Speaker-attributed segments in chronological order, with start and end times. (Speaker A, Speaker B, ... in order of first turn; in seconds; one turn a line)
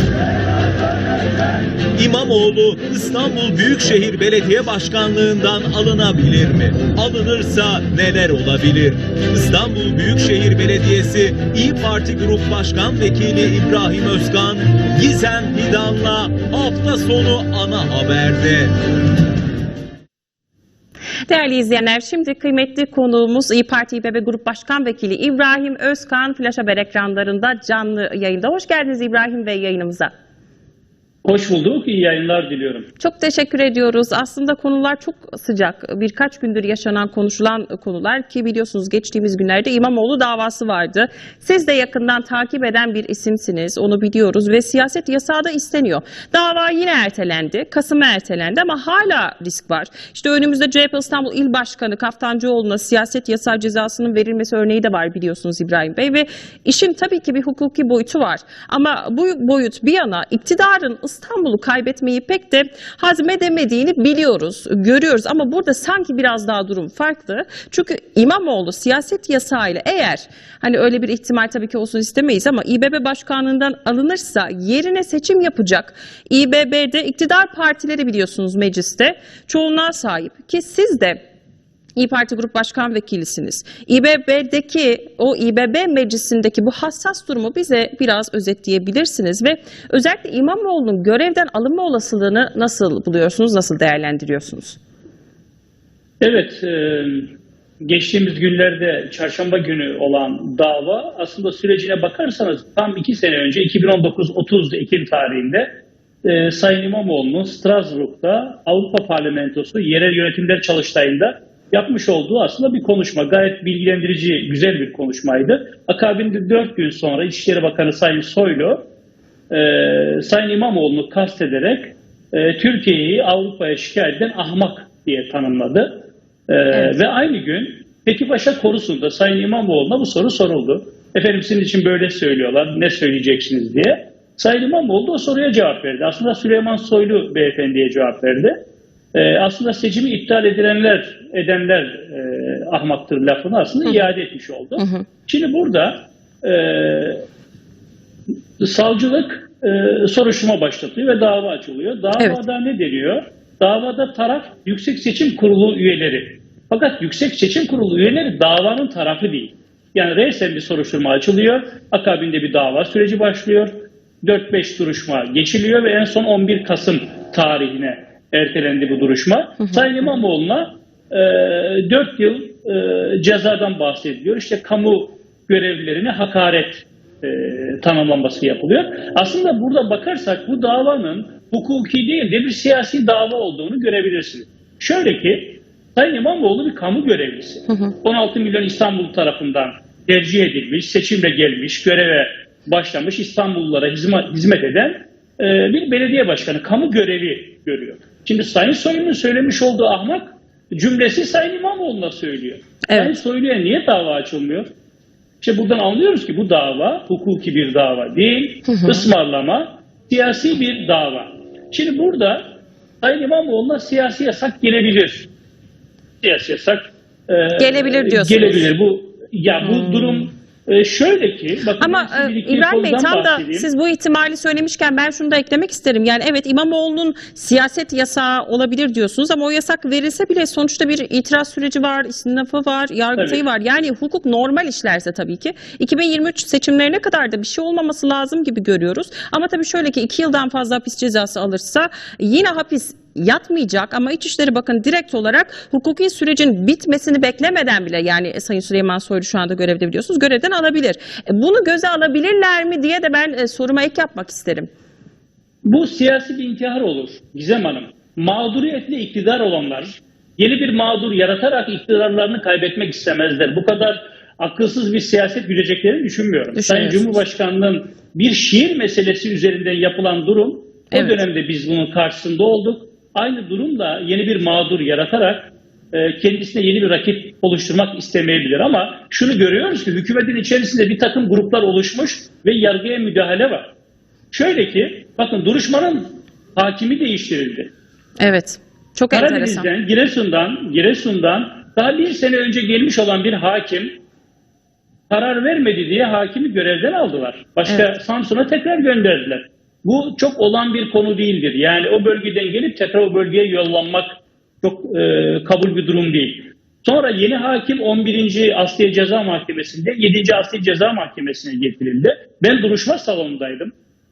Speaker A: 1.9-18.7
Speaker B: 21.3-30.1
Speaker C: 31.2-32.9
Speaker B: 33.0-81.2
Speaker B: 82.0-94.8
Speaker C: 96.2-118.9
Speaker C: 119.5-147.2
Speaker B: 126.7-127.0
Speaker B: 144.8-145.1
Speaker C: 148.6-204.7
Speaker B: 169.6-170.0
Speaker B: 187.7-187.9
Speaker B: 202.9-203.2
Speaker C: 205.4-215.3
Speaker B: 208.7-209.0
Speaker C: 216.2-223.7
Speaker B: 217.6-218.7
Speaker B: 219.6-220.3
Speaker B: 221.8-254.7
Speaker C: 255.6-283.7
Speaker B: 266.5-267.2
Speaker B: 270.9-271.2
Speaker C: 284.3-287.7
Speaker B: 288.2-289.7
Speaker C: 289.1-294.0
Speaker C: 295.1-313.7